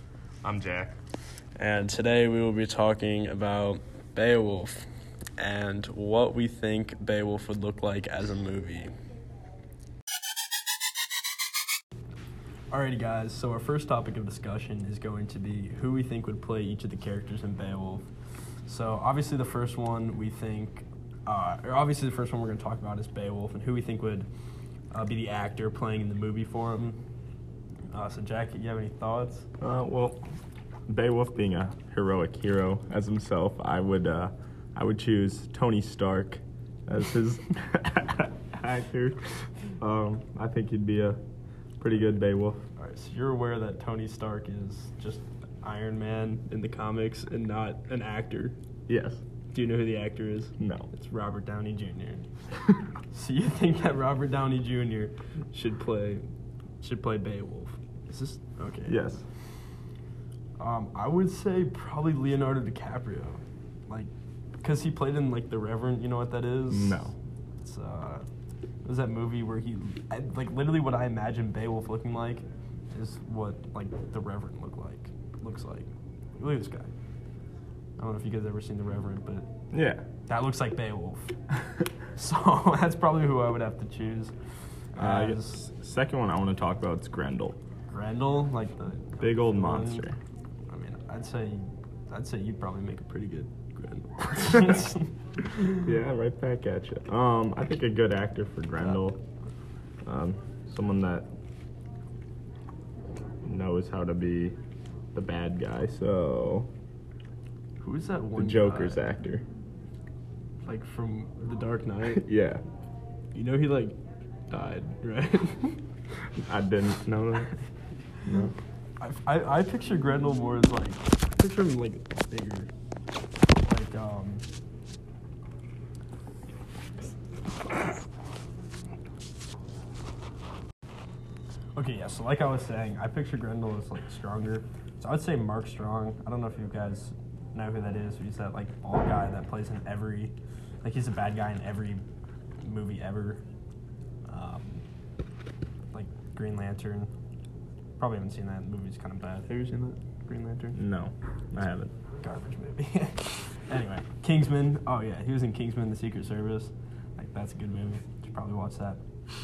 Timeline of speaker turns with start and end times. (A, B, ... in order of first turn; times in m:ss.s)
0:00.4-0:01.0 A
0:01.6-0:04.9 B
0:05.4-0:08.9 B
0:12.7-0:18.1 B
0:18.7-0:24.3 B
0:24.9-0:27.0 B
0:27.9-0:29.5 B
0:29.6-0:30.2 A
0:30.9-0:41.2 A
0:41.8-0:42.6 A
0:42.8-0:48.6 B
0:48.9-0:49.2 A
0:49.5-0:52.2 B
0:50.6-0:50.9 A
0:53.1-0:56.3 B
0:56.8-0:59.1 B
0:58.9-0:59.2 A
1:00.6-1:04.1 B
1:04.6-1:07.0 B
1:06.7-1:07.2 A
1:07.6-1:08.3 B
1:08.8-1:16.9 B
1:18.0-1:19.5 B
1:19.7-1:20.0 A
1:20.3-1:21.4 B
1:22.1-1:24.3 B
1:24.9-1:25.6 B
1:25.0-1:27.6 A
1:27.9-1:30.1 B
1:29.2-1:30.2 A
1:30.7-1:35.9 B
1:35.8-1:39.2 A
1:40.0-1:41.3 A
1:43.4-1:44.6 A
1:45.1-1:46.7 A
1:47.8-1:49.1 B
1:48.4-1:49.5 A
1:50.6-1:52.3 B
1:52.2-1:52.6 A
1:53.3-1:54.0 B
1:54.5-1:55.8 B
1:56.3-1:57.5 A
1:58.3-1:58.5 A
1:59.0-2:02.7 B
2:03.7-2:04.5 B
2:11.8-2:22.0 B
2:22.6-2:23.4 B
2:24.3-2:24.8 B
2:25.9-2:27.1 B
2:28.0-2:30.8 B
2:30.8-2:31.9 A
2:32.2-2:39.0 B